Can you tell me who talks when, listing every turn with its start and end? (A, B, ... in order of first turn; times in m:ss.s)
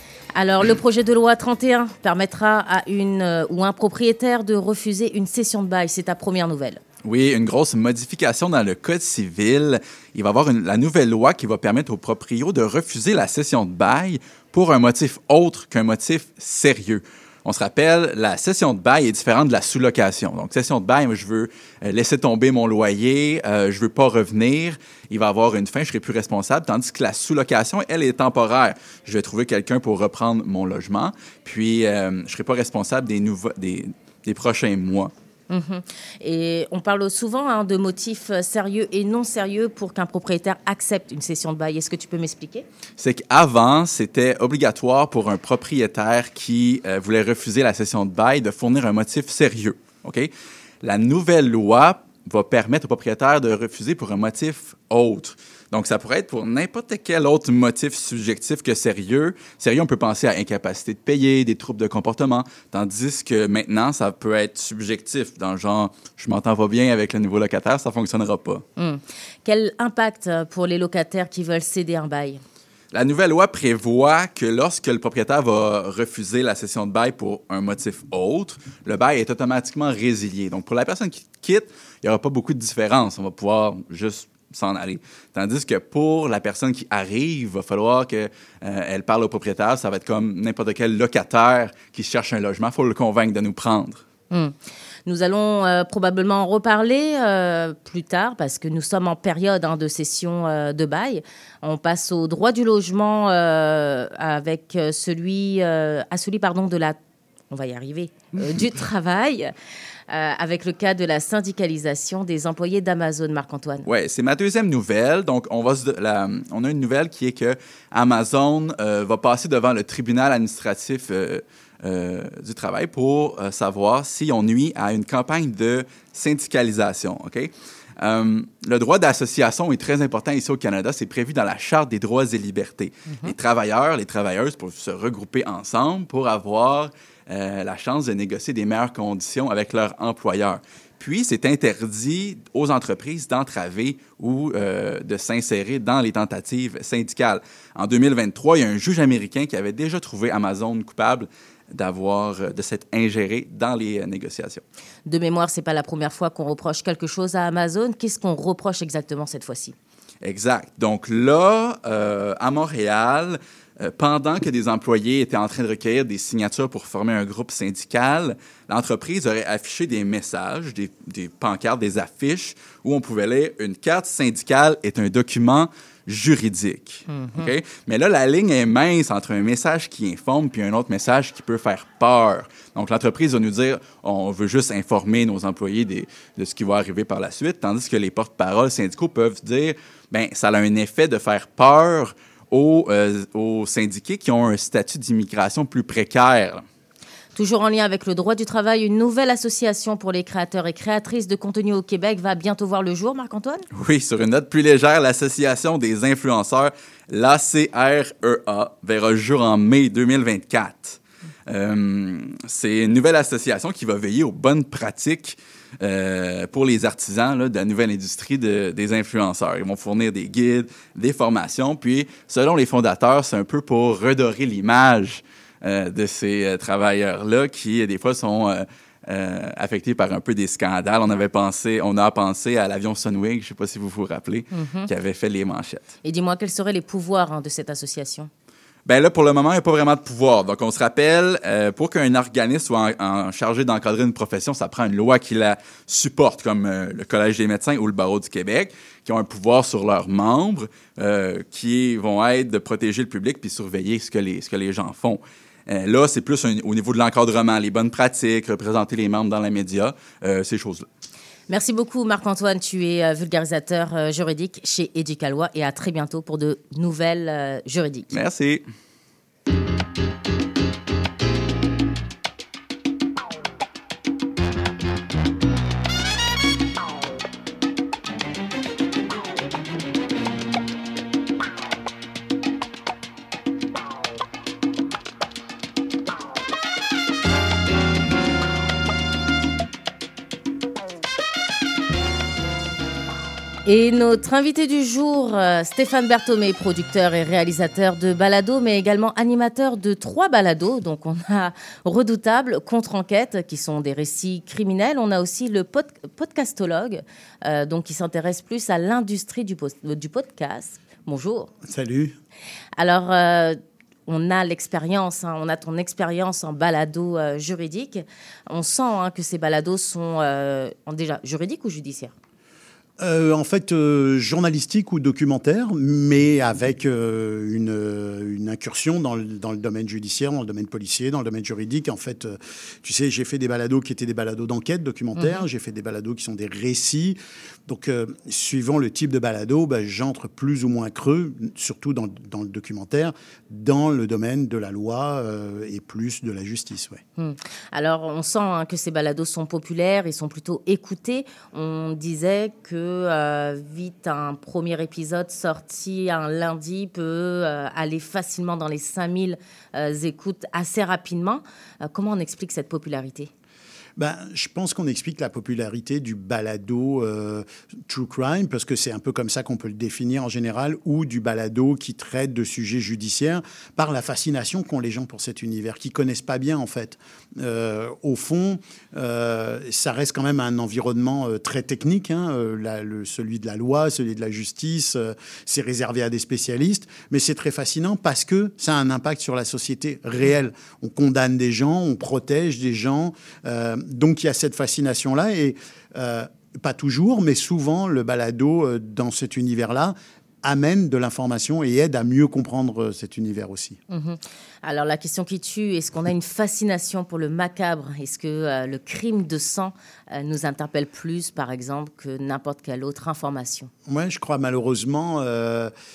0:00.3-0:06.8 A
0:07.0-0:35.1 B
0:35.5-0:42.6 A
0:43.0-0:50.3 B
0:50.8-1:08.6 B
1:08.8-1:12.4 A
1:12.9-1:34.0 B
1:35.0-1:47.0 A
1:47.5-1:49.5 A
1:50.1-1:53.8 A
1:53.8-2:34.6 B
2:35.0-2:39.7 A
2:40.2-3:16.6 B
2:57.1-2:57.5 A
3:17.3-3:23.6 A
3:23.7-3:55.9 B
3:54.5-3:54.9 A
3:56.0-3:58.3 A
3:58.8-4:20.8 B
4:21.5-4:28.1 A
4:28.1-4:28.6 B
4:53.6-5:11.5 A
5:11.6-5:12.2 C
5:12.8-5:22.1 A
5:23.0-5:47.0 C
5:35.2-5:35.4 A
5:47.2-6:03.3 A
6:04.0-6:43.8 C
6:43.9-6:53.7 A
6:53.9-6:55.7 C